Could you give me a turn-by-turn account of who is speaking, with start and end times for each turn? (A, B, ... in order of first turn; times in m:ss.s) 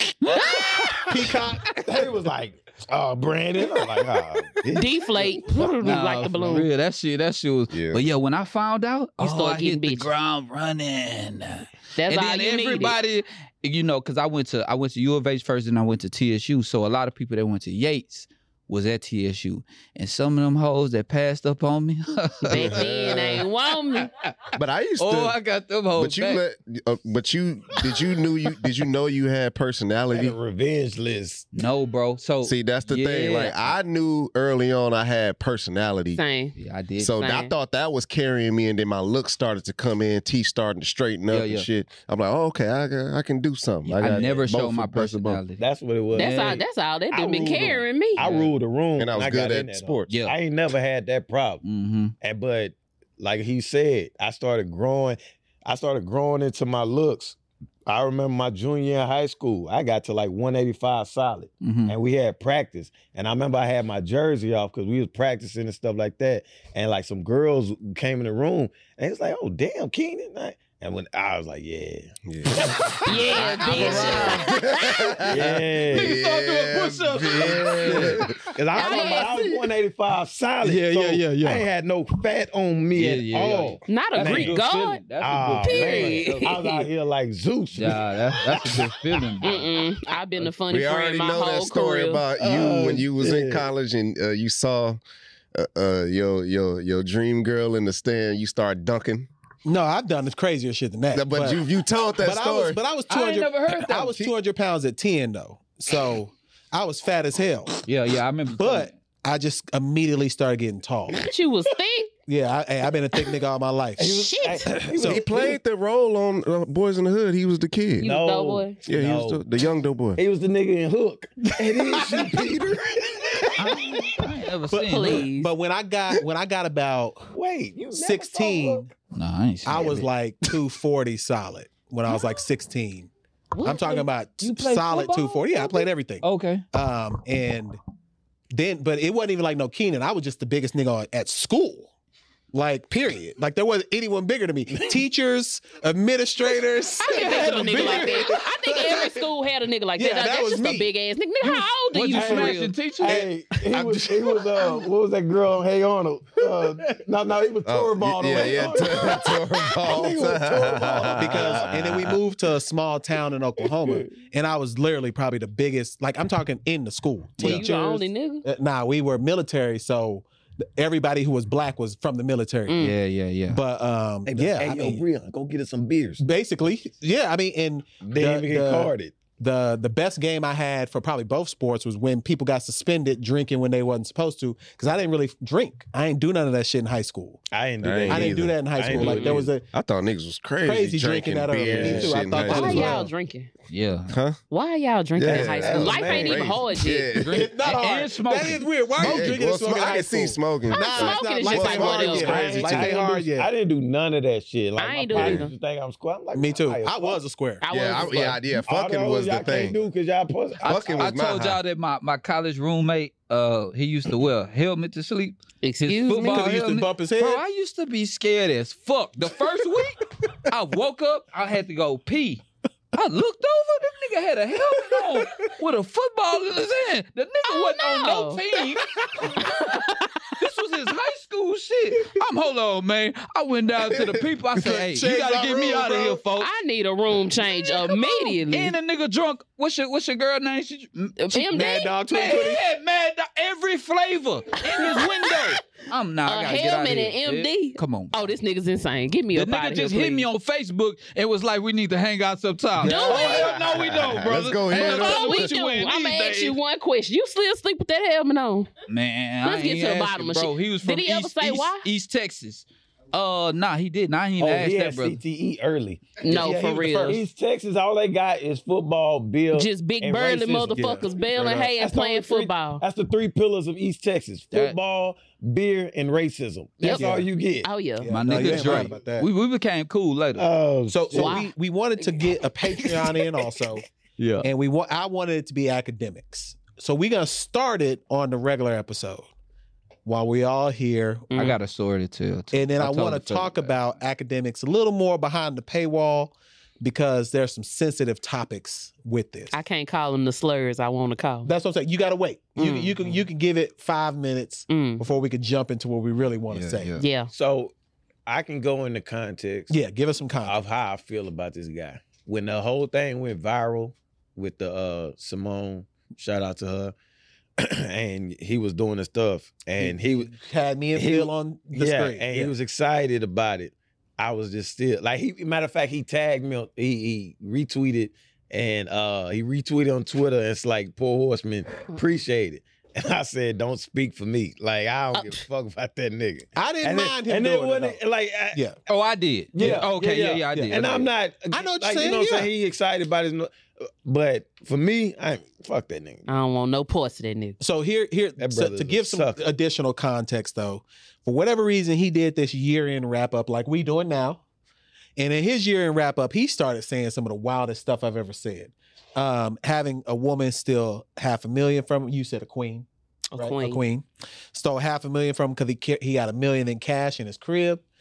0:00.2-0:01.8 A
0:01.1-0:01.7 B
0:01.8-0:05.4 C
0:04.8-0:06.7 D
0:05.8-0:23.4 A
0:07.7-0:08.0 E
0:09.2-0:10.1 D
0:12.0-0:13.0 D
0:22.4-0:24.1 D
0:22.5-0:23.4 E
0:24.0-0:26.4 A
0:24.6-0:25.4 E
0:26.0-0:30.4 E
0:30.1-0:31.5 C
0:31.5-0:33.7 A
0:32.4-0:36.2 E
0:36.1-0:36.6 D
0:36.6-0:37.2 A
0:37.0-0:45.4 E
0:37.1-0:37.5 D
0:41.3-0:41.7 A
0:43.8-0:45.6 A
0:44.1-0:44.4 C
0:45.6-0:51.6 C
0:46.2-0:46.6 A
0:46.2-0:48.3 D
0:47.5-0:48.5 A
0:49.0-0:50.1 E
0:50.1-0:50.3 A
0:51.6-0:52.1 A
0:52.2-1:12.1 C
1:01.6-1:01.9 A
1:12.3-1:18.4 E
1:13.0-1:15.2 D
1:13.3-1:14.6 A
1:13.7-1:14.2 C
1:15.3-1:16.2 C
1:15.4-1:19.4 A
1:17.3-1:24.6 C
1:18.8-1:19.6 D
1:20.6-1:21.7 B
1:22.9-1:26.6 A
1:23.9-1:25.0 D
1:25.2-1:28.9 C
1:25.6-1:26.9 D
1:27.8-1:29.7 A
1:29.4-1:32.2 D
1:30.7-1:35.0 E
1:32.4-1:33.7 C
1:35.5-1:39.3 E
1:39.6-1:41.6 B
1:41.1-1:42.8 E
1:42.2-1:47.8 B
1:43.1-1:44.2 A
1:47.8-1:49.0 A
1:48.5-1:51.2 B
1:51.1-1:52.1 D
1:52.3-1:55.2 B
1:54.0-1:55.6 C
1:54.3-1:54.7 D
1:55.0-1:58.1 E
1:58.0-1:59.4 C
1:58.0-1:58.8 D
1:58.9-2:00.2 E
2:00.2-2:04.0 C
2:01.6-2:02.8 B
2:03.3-2:07.3 B
2:03.6-2:05.3 A
2:04.9-2:05.5 D
2:07.3-2:08.9 C
2:07.9-2:08.9 B
2:09.1-2:10.1 A
2:09.7-2:13.1 B
2:13.5-2:15.9 D
2:13.6-2:17.8 B
2:14.5-2:15.3 A
2:16.2-2:16.6 A
2:18.5-2:21.9 B
2:22.5-2:29.2 B
2:24.7-2:25.0 C
2:27.0-2:32.7 D
2:27.4-2:28.2 A
2:30.0-2:30.9 B
2:31.4-2:33.2 A
2:32.1-2:34.8 B
2:32.2-2:32.4 C
2:33.0-2:42.2 C
2:37.7-2:42.2 E
2:38.3-2:38.6 B
2:38.9-2:39.4 D
2:41.0-2:52.9 B
2:43.6-2:44.1 C
2:47.4-2:47.7 A
2:47.4-2:48.4 D
2:52.7-2:53.0 D
2:52.8-2:53.6 A
2:53.5-2:55.0 B
2:54.3-2:56.2 C
2:56.2-3:07.4 B
2:58.0-2:59.1 C
3:07.5-3:09.5 C
3:07.8-3:13.1 E
3:08.1-3:09.6 B
3:09.0-3:09.4 A
3:10.6-3:13.1 B
3:11.6-3:12.9 C
3:12.4-3:13.5 D
3:13.7-3:14.2 A
3:14.1-3:14.4 E
3:14.5-3:17.1 D
3:15.2-3:17.5 E
3:15.3-3:16.6 C
3:17.2-3:19.3 A
3:17.3-3:23.5 B
3:19.0-3:22.6 E
3:19.0-3:20.0 C
3:20.7-3:23.0 D
3:21.5-3:27.2 C
3:24.8-3:25.5 D
3:25.1-3:25.5 E
3:26.4-3:27.6 B
3:27.6-3:28.4 D
3:27.7-3:29.8 E
3:28.6-3:31.2 C
3:30.6-3:56.5 A
3:30.6-3:31.6 E
3:35.6-3:36.5 D
3:36.2-3:37.4 B
3:47.5-3:48.4 D
3:53.9-3:54.2 E
3:54.6-3:56.2 B
3:56.4-3:58.8 D
3:57.8-4:08.3 A
4:01.2-4:02.0 D
4:01.5-4:02.6 B
4:04.6-4:05.6 D
4:06.2-4:10.3 D
4:09.3-4:16.6 A
4:12.8-4:15.5 E
4:12.8-4:13.5 D
4:14.7-4:18.7 D
4:18.9-4:25.2 A
4:19.4-4:21.9 D
4:24.4-4:37.7 C
4:26.2-4:27.2 D
4:26.3-4:27.2 B
4:29.5-4:32.8 D
4:30.7-4:31.0 B
4:36.9-4:37.3 B
4:37.6-4:38.1 D
4:38.0-4:39.3 B
4:38.1-4:40.5 A
4:38.5-4:38.9 C
4:40.4-4:41.5 C
4:40.9-4:43.8 B
4:41.1-4:41.5 D
4:44.2-4:44.5 C
4:44.4-4:49.3 B
4:50.0-4:51.4 B
4:51.3-4:51.6 D
4:51.4-4:54.0 A
4:52.5-4:59.6 B
4:59.5-5:01.5 D
5:01.5-5:07.0 B
5:02.6-5:03.0 D
5:04.7-5:05.0 D
5:06.5-5:07.0 A
5:07.0-5:07.3 D
5:07.3-5:07.7 C
5:08.3-5:09.8 C
5:09.7-5:10.6 B
5:10.4-5:16.9 C
5:17.6-5:20.3 C
5:19.8-5:22.5 B
5:21.0-5:38.6 C
5:35.1-5:35.4 D
5:36.6-5:38.0 B
5:38.9-5:41.0 A
5:39.5-5:43.5 C
5:39.6-5:39.9 B
5:40.5-5:42.5 B
5:44.0-5:46.3 C
5:46.3-5:47.6 D
5:47.6-5:54.4 B
5:48.4-5:49.4 C
5:55.2-6:07.8 B
6:03.3-6:03.8 D